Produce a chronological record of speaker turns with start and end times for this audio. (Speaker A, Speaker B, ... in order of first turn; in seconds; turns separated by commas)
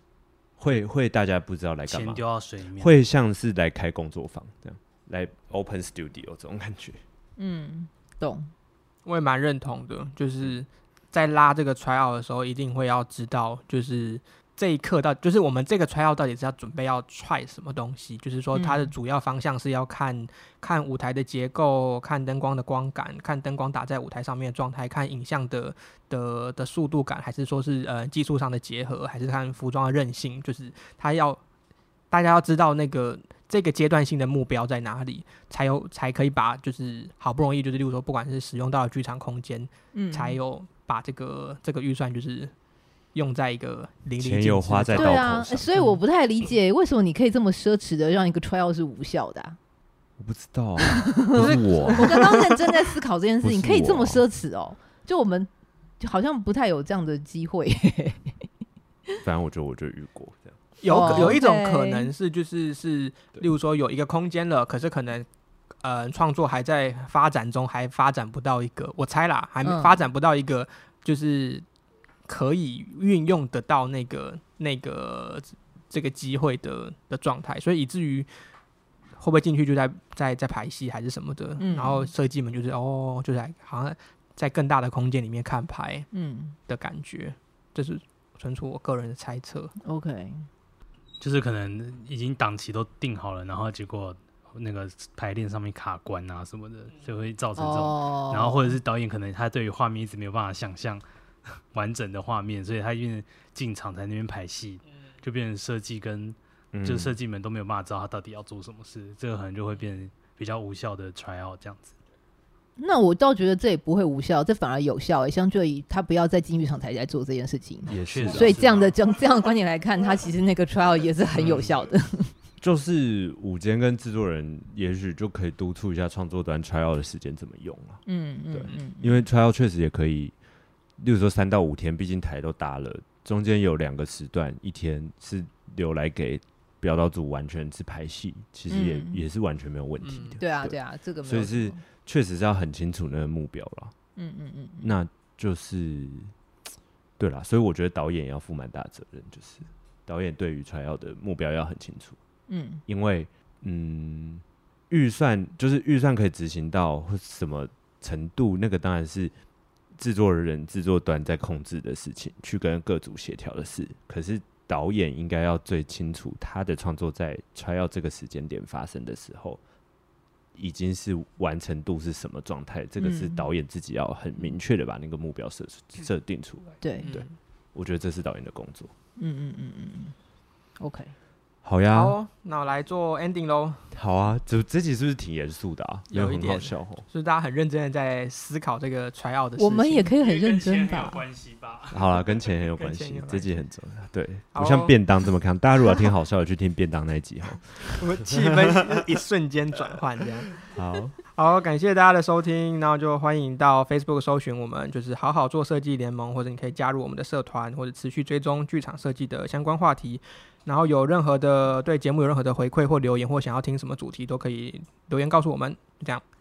Speaker A: 0.6-2.2, Speaker B: 1.9-2.9, Speaker A: 2.8-7.0, Speaker C: 7.4-8.5, Speaker D: 9.0-31.4, Speaker C: 18.5-18.9, Speaker D: 32.1-42.5, Speaker C: 39.9-40.4, Speaker D: 43.1-45.2, Speaker A: 44.2-45.7, Speaker C: 44.9-49.6, Speaker A: 50.2-52.3, Speaker C: 51.0-58.4, Speaker D: 51.3-52.5, Speaker A: 53.4-54.2, Speaker A: 59.2-61.4, Speaker D: 60.8-65.3, Speaker C: 60.9-62.1, Speaker D: 65.8-71.7, Speaker C: 69.6-70.0, Speaker D: 72.2-78.3, Speaker D: 79.2-86.1, Speaker C: 81.6-82.1, Speaker C: 86.1-86.5, Speaker D: 86.7-89.7, Speaker C: 89.8-90.5, Speaker B: 91.2-112.0, Speaker C: 97.5-98.8, Speaker A: 106.7-107.2, Speaker C: 112.8-122.3, Speaker A: 117.9-118.7, Speaker B: 118.0-118.9, Speaker A: 122.6-128.0, Speaker C: 128.1-129.2, Speaker A: 128.5-130.3, Speaker A: 131.0-143.9, Speaker C: 138.7-139.2, Speaker D: 140.0-140.4, Speaker C: 140.4-141.8, Speaker C: 144.2-144.9, Speaker A: 144.8-146.3, Speaker A: 147.2-152.2, Speaker C: 152.5-152.8, Speaker A: 152.9-159.3, Speaker A: 160.0-169.6, Speaker A: 170.5-178.9, Speaker C: 173.0-173.4, Speaker C: 176.8-177.1, Speaker D: 177.0-177.3, Speaker C: 179.2-180.2, Speaker C: 180.8-181.1, Speaker A: 181.6-182.2, Speaker D: 181.9-183.9, Speaker A: 183.9-187.1, Speaker D: 186.1-190.1, Speaker C: 189.6-191.2, Speaker B: 190.2-192.2, Speaker A: 191.9-198.9, Speaker D: 192.4-193.5, Speaker D: 194.5-194.9, Speaker D: 198.0-200.7, Speaker A: 200.7-201.2, Speaker D: 201.2-216.2